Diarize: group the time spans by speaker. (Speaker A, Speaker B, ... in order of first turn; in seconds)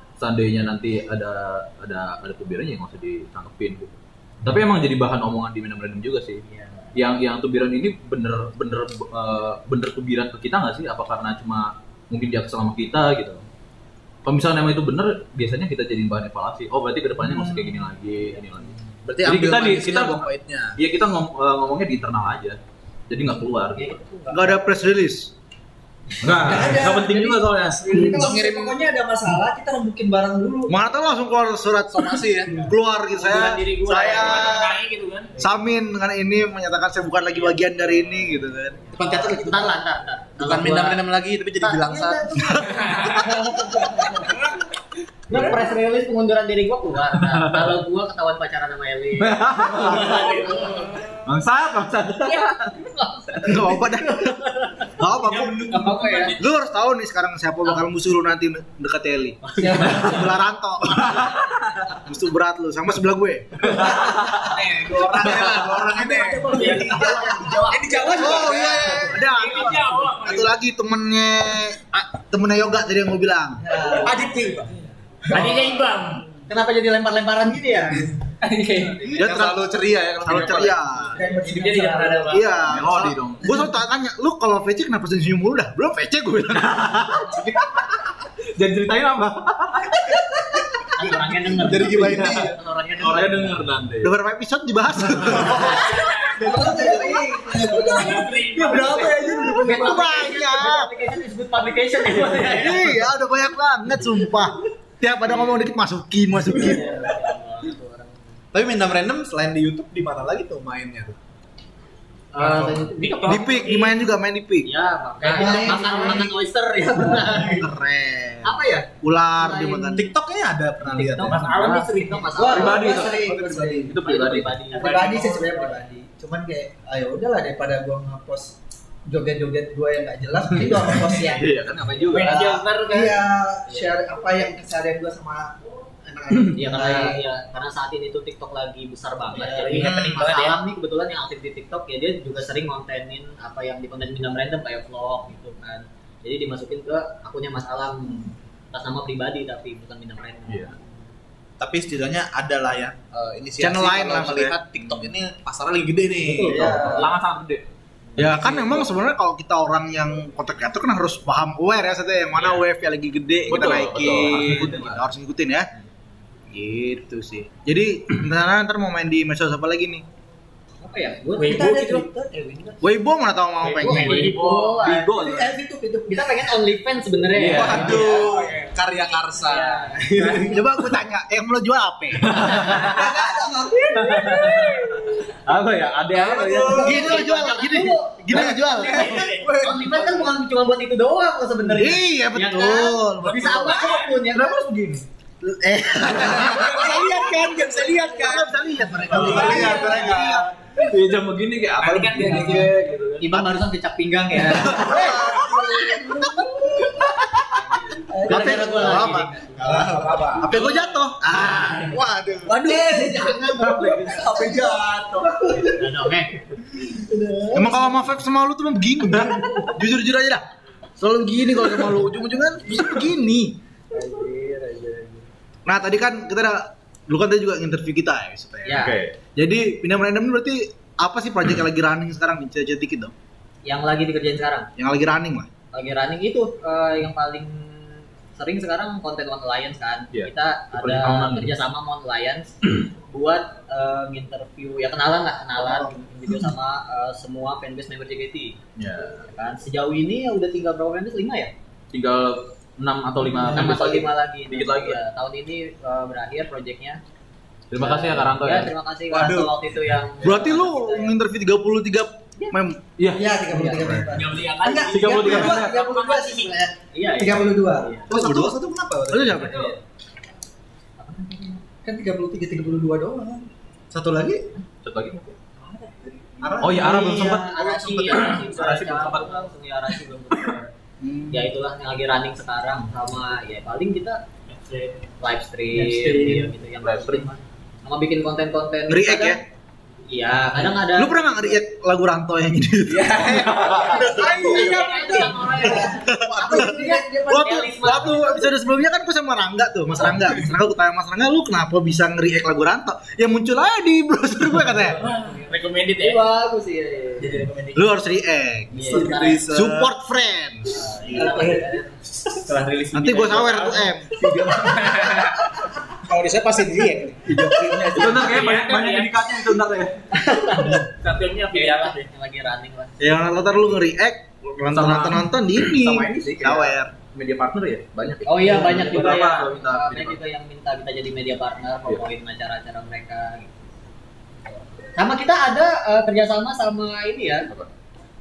Speaker A: 0.2-6.4, 6.9-13.4, 14.2-18.7, 19.2-22.6, 23.1-23.9, 26.2-27.8, 49.5-50.1, 51.3-52.5, 82.7-83.4, 88.5-90.2, 93.0-94.1, 121.3-124.5, 130.8-132.6, 156.7-157.6, 158.2-158.9, 163.5-165.0, 173.8-175.6, 177.3-178.0, 182.3-183.1, 183.9-187.0, 199.2-200.0, 200.7-203.4, 228.8-229.2, 240.1-241.5, 248.8-249.3, 251.9-255.0, 257.7-258.7, 263.0-263.3, 264.9-265.8, 274.8-275.4, 276.6-277.5, 278.1-279.5, 286.8-287.3, 317.9-320.0, 324.7-330.2
Speaker B: 6.5-6.9, 23.7-24.6, 33.1-34.6, 39.0-41.0, 41.6-44.4, 45.3-51.0, 52.2-54.9, 55.7-56.3, 59.5-60.2, 66.8-67.7, 75.3-75.8, 76.5-78.1, 90.9-93.6, 95.4-97.0, 99.6-103.0, 105.3-105.7, 106.5-108.2, 112.4-113.5, 114.7-117.7, 118.4-118.9, 119.4-120.0, 120.8-125.7, 136.5-150.8, 156.2-157.1, 170.8-171.8, 173.8-175.1, 176.1-178.4, 179.3-180.6, 182.4-182.7, 186.8-194.7, 199.5-199.8, 203.2-205.0, 207.5-209.9, 215.6-216.4, 224.5-225.1, 228.7-228.9, 233.7-234.7, 235.7-242.5, 243.1-248.6, 249.3-251.5, 253.5-257.0, 257.8-261.1, 263.5-263.8, 266.9-268.1, 271.0-271.6, 277.0-280.7, 281.3-284.2, 285.2-289.4, 290.1-291.6, 293.7-298.5, 305.0-307.4, 308.7-309.4, 310.7-311.9, 320.1-320.9, 321.5-322.9, 328.2-333.6, 334.9-337.5
Speaker C: 19.0-20.8, 28.1-28.8, 31.9-32.6, 38.9-39.8, 40.4-42.7, 55.3-55.7, 64.3-69.0, 74.0-74.7, 79.2-80.8, 91.5-92.5, 98.7-99.5, 108.5-111.2, 112.4-112.8, 119.9-121.4, 151.6-156.8, 177.3-180.5, 186.3-186.9, 189.2-190.3, 196.2-198.5, 199.1-200.4, 209.6-210.6, 213.8-215.3, 259.1-259.5, 268.1-269.6, 273.9-274.4, 276.4-278.5, 293.1-293.9, 308.8-309.9, 316.1-318.4
Speaker D: 24.3-25.3, 30.7-34.8, 35.4-39.0, 53.4-54.4, 55.0-55.7, 56.4-63.9, 64.9-67.0, 68.1-73.7, 79.1-81.2, 82.3-87.5, 94.0-97.2, 97.9-100.9, 102.3-106.9, 113.2-114.7, 117.1-120.1, 139.7-140.3, 153.6-154.6, 158.2-165.7, 166.5-170.0, 172.8-174.3, 180.3-182.7, 186.7-189.3, 191.6-200.4, 204.7-206.0, 208.2-212.8, 217.5-220.4, 221.0-223.6, 225.7-228.8, 229.3-233.1, 234.8-235.5, 245.6-245.9, 260.2-262.8, 263.8-264.1, 268.1-268.6, 269.1-269.7, 288.9-289.4, 290.9-294.6, 295.6-305.0, 307.7-310.8, 312.9-314.1, 317.4-318.2, 323.0-326.9
Speaker E: 26.3-30.8, 66.5-67.4, 73.6-74.8, 81.0-82.6, 96.4-98.3, 115.2-116.3, 122.3-124.0, 124.7-128.5, 129.1-135.5, 136.1-137.2, 156.4-157.1, 171.4-172.9, 175.1-176.6, 182.5-184.9, 204.7-207.2, 208.1-209.2, 212.4-215.9, 216.8-218.1, 219.1-219.7, 224.0-224.2, 263.1-268.1, 271.8-273.5, 285.7-286.5, 293.9-297.7, 311.1-311.7
Speaker F: 34.0-35.4, 42.7-43.3, 50.4-51.0, 55.7-56.4, 66.5-67.5, 69.1-70.6, 73.8-74.5, 75.3-76.2, 78.4-79.1, 81.3-82.6, 95.8-96.7, 97.3-100.0, 112.4-114.0, 115.2-115.8, 121.2-122.7, 124.7-125.7, 132.1-133.2, 139.4-140.5, 171.4-172.1, 173.6-174.8, 188.8-189.5, 193.2-194.2, 199.0-200.1, 201.8-202.8, 210.0-210.9, 264.1-266.7, 269.4-269.7, 284.5-285.0, 293.9-295.9, 304.9-306.2, 307.2-307.8, 312.4-315.5, 318.1-319.3, 320.6-322.1